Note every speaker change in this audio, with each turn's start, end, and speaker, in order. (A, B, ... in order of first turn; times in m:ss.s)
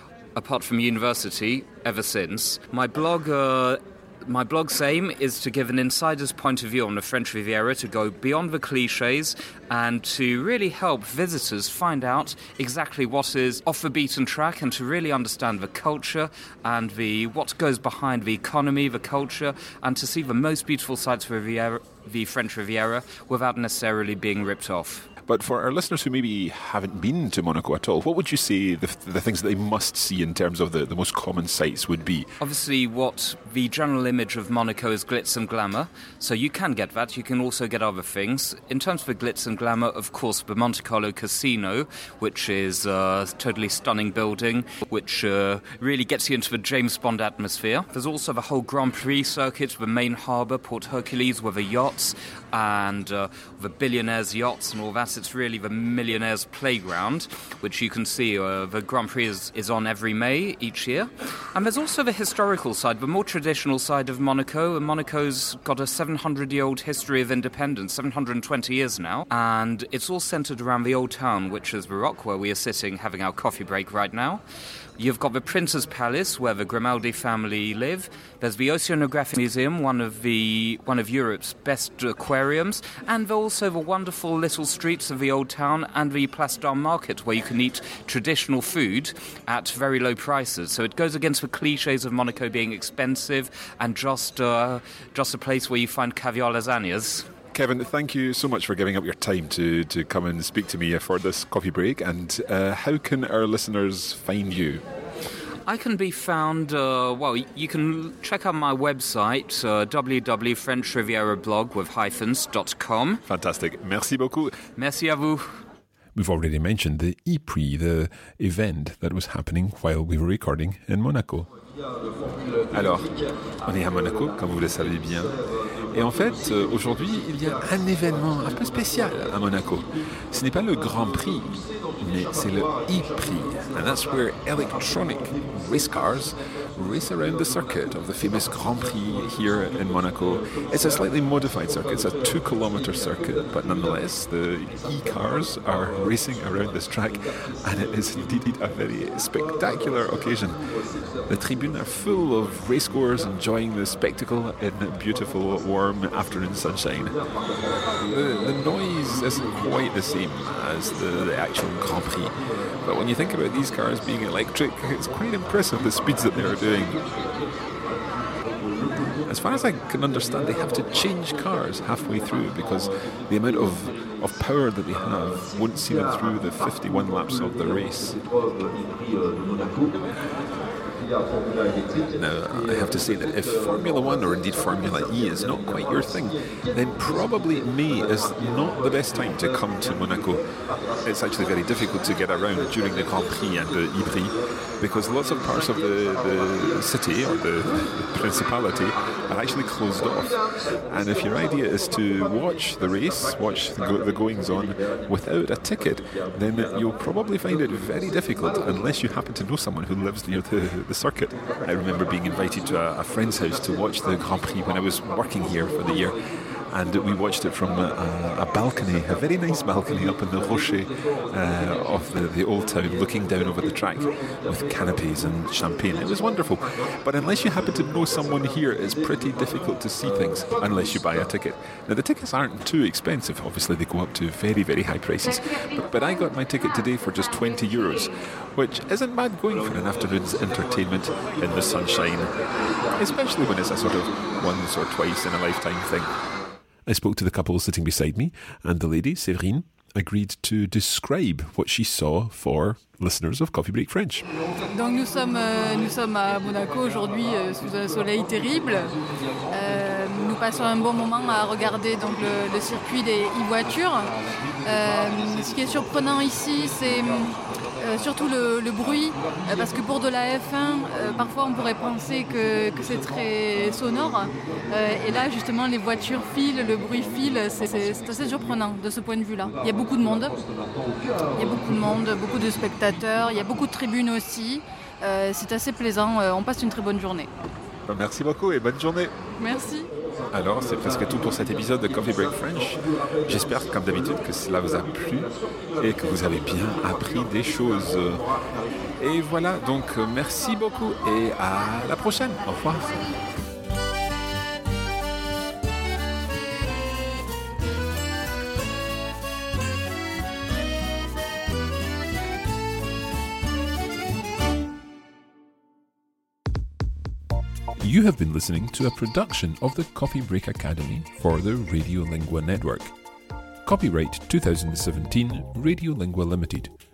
0:00.4-0:25.1 A
0:25.3-0:32.2 B
0:32.4-1:14.4 A
1:15.0-1:37.3 A
1:37.5-1:44.8 B
1:45.7-1:53.2 A
1:53.3-1:54.6 B
1:54.8-1:55.4 A
1:56.2-2:01.4 B
2:02.7-2:05.4 B
2:05.9-2:30.6 B
2:31.3-2:37.1 B
2:38.1-2:47.0 B
2:49.3-2:58.2 B
3:02.1-3:10.4 B
3:11.0-3:36.2 B
3:36.7-4:02.3 B
4:02.9-4:06.1 B
4:06.9-4:14.2 C
4:14.7-4:18.9 D
4:19.5-4:24.1 D
4:24.6-4:40.4 D
4:41.4-4:47.3 D
4:47.9-4:49.1 B
4:49.4-4:49.9 D
4:50.3-4:58.2 B
4:59.0-5:03.1 B
5:17.8-5:22.8 B
5:19.0-5:21.5 C
5:23.7-5:26.6 B